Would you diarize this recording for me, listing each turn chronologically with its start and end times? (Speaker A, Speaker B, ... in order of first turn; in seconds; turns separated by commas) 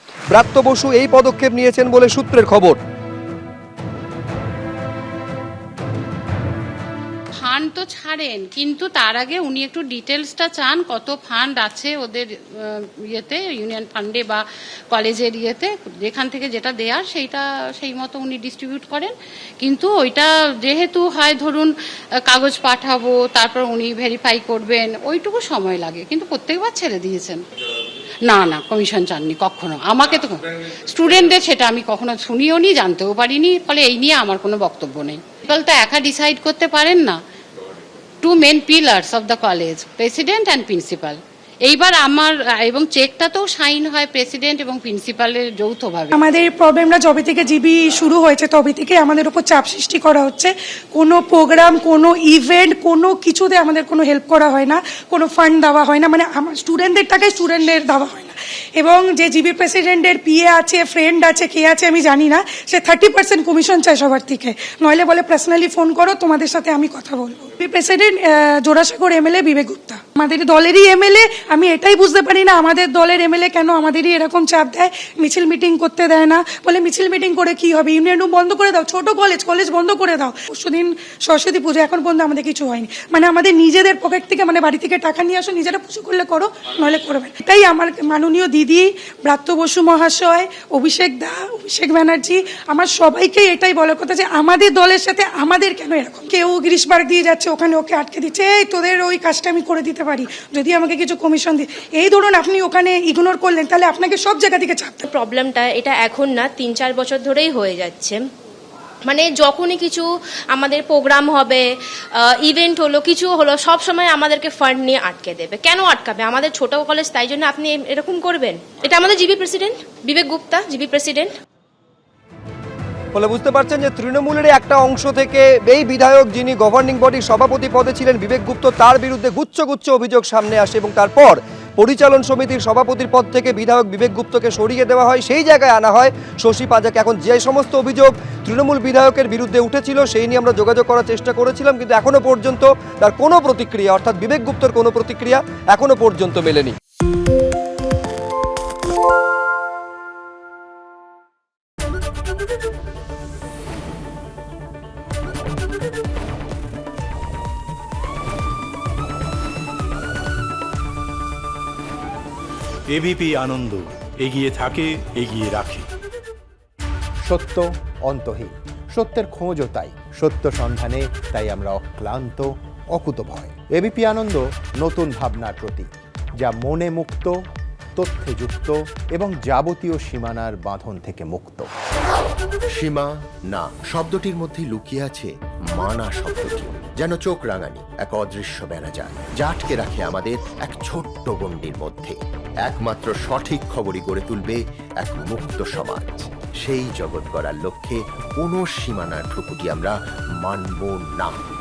Speaker A: 0.3-2.8, Speaker B: 7.4-21.7, Speaker B: 22.3-27.4, Speaker B: 28.2-37.2, Speaker B: 38.2-46.1, Speaker C: 46.1-105.0, Speaker D: 105.0-108.2, Speaker D: 109.1-121.3, Speaker A: 123.1-146.7, Speaker E: 162.9-165.9, Speaker F: 167.2-177.3, Speaker F: 177.9-181.7, Speaker G: 182.8-201.4